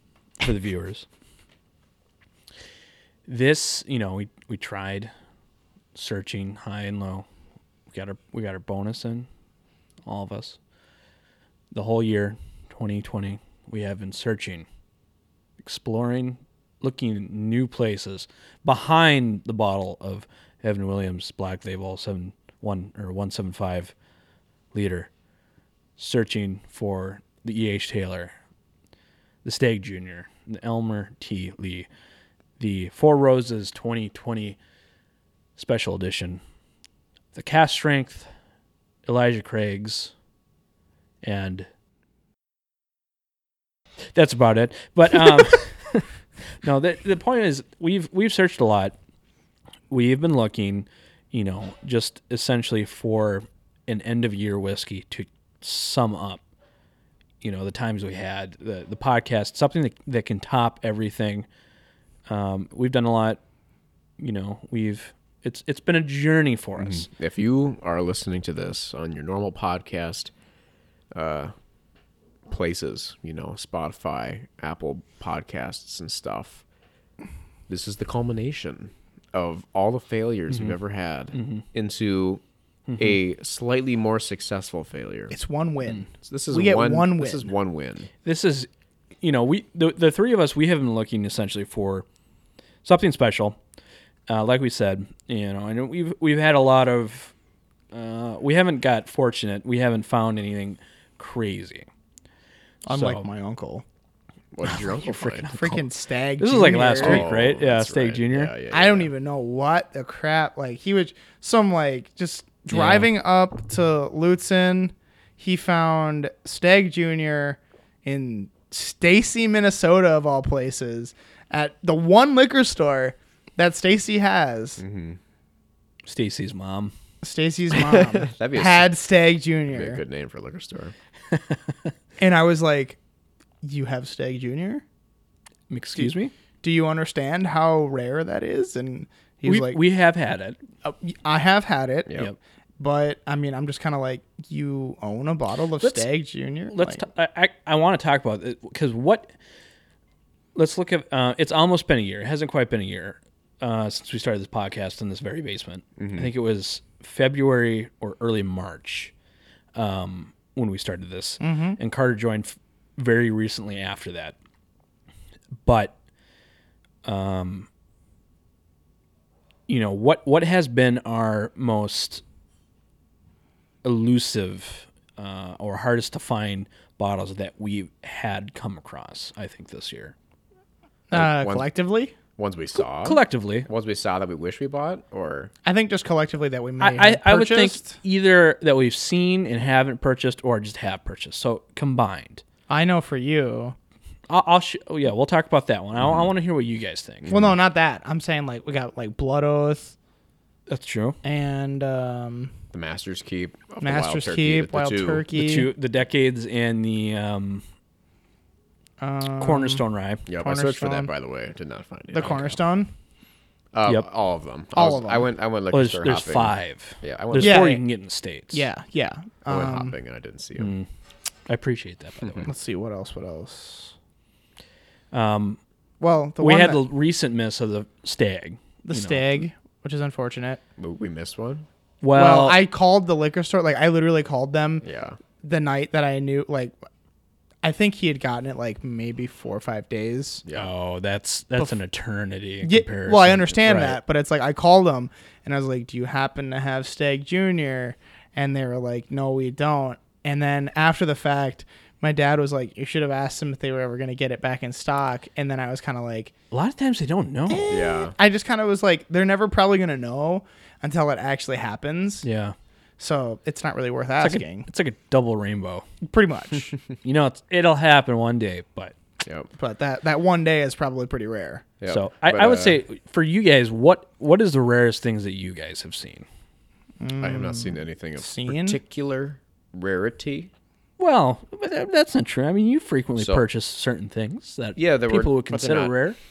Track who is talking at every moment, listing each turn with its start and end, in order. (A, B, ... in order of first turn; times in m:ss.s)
0:00.4-0:01.1 A
0:03.3-0:05.1 A
0:06.0-0:07.3 A
0:07.9-0:09.3 A
0:10.1-0:10.6 A
0:11.7-0:14.7 A
0:15.6-0:23.9 A
0:24.7-0:25.1 A
0:26.0-0:28.4 A
0:29.4-0:31.9 A
0:32.6-0:34.6 A
0:35.6-0:36.4 A
0:37.3-0:38.3 A
0:39.1-0:40.1 A
0:41.2-0:41.7 A
0:44.1-0:49.0 A
0:49.9-0:56.4 A
0:57.4-1:01.5 A
1:02.3-1:03.4 A
1:04.2-1:07.1 A
1:06.8-1:10.3 B
1:11.1-1:11.5 B
1:12.5-1:16.6 B
1:17.7-1:22.4 B
1:21.4-1:21.6 A
1:22.9-1:23.2 A
1:23.0-1:25.3 B
1:25.3-1:27.5 C
1:26.1-1:28.1 B
1:28.2-1:28.7 A
1:29.2-1:32.1 A
1:32.8-1:33.6 A
1:34.3-1:37.3 A
1:37.9-1:41.9 A
1:42.9-1:43.8 C
1:42.9-1:43.3 A
1:44.5-1:45.8 B
1:44.6-1:45.8 A
1:45.5-1:47.2 C
1:46.4-1:48.5 A
1:47.0-1:49.1 B
1:48.7-2:04.8 C
1:52.7-1:53.1 A
2:04.8-2:05.2 B
2:06.1-2:06.9 A
2:07.2-2:10.0 C
2:07.7-2:09.0 B
2:09.7-2:10.9 B
2:11.3-2:11.9 A
2:12.2-2:13.0 C
2:13.6-2:14.8 C
2:15.7-2:16.3 A
2:16.0-2:19.8 C
2:19.4-2:20.6 A
2:20.8-2:22.2 C
2:22.1-2:22.3 B
2:22.8-2:27.0 C
2:25.8-2:26.1 A
2:26.7-2:29.3 A
2:30.6-2:39.1 A
2:36.0-2:36.3 B
2:39.8-2:44.4 A
2:41.4-2:41.8 C
2:45.6-2:46.0 A
2:47.0-2:47.7 A
2:49.7-2:52.2 A
2:53.8-3:00.1 A
3:01.1-3:02.2 C
3:01.1-3:01.7 B
3:02.4-3:05.5 B
3:02.8-3:03.7 A
3:05.6-3:08.0 C
3:06.8-3:12.4 A
3:12.7-3:13.8 C
3:14.3-3:17.3 A
3:17.3-3:20.0 C
3:20.7-3:21.2 A
3:21.2-3:22.6 C
3:22.7-3:25.2 B
3:23.8-3:25.7 C
3:25.3-3:27.6 A
3:29.0-3:31.1 C
3:29.4-3:30.2 A
3:30.3-3:32.6 B
3:32.1-3:32.9 C
3:33.7-3:37.6 B
3:34.8-3:35.3 C
3:35.7-3:38.6 A
3:37.4-3:37.8 C
3:38.5-3:40.0 C
3:39.5-3:40.7 B
3:40.6-3:40.9 A
3:41.5-3:42.5 A
3:42.2-3:42.5 B
3:42.5-3:43.9 C
3:45.1-3:45.6 A
3:46.0-3:46.8 C
3:46.4-3:49.4 A
3:48.8-3:50.6 C
3:50.8-3:51.7 B
3:52.0-3:52.6 A
3:52.1-3:54.8 C
3:54.8-3:55.2 B
3:55.4-3:56.7 C
3:57.6-4:00.4 C
4:00.4-4:00.7 B
4:00.5-4:04.0 A
4:02.6-4:16.3 C
4:16.5-4:17.8 A
4:17.5-4:22.3 C
4:17.7-4:18.2 B
4:22.2-4:22.6 A
4:23.0-4:24.7 C
4:24.2-4:25.9 A
4:26.0-4:26.8 C
4:27.0-4:29.0 A
4:29.2-4:29.5 B
4:29.6-4:31.6 C
4:31.8-4:32.8 B
4:31.9-4:36.3 A
4:37.0-4:38.8 C
4:37.2-4:40.5 B
4:41.0-4:46.2 A
4:43.2-4:43.4 B
4:44.8-4:46.0 B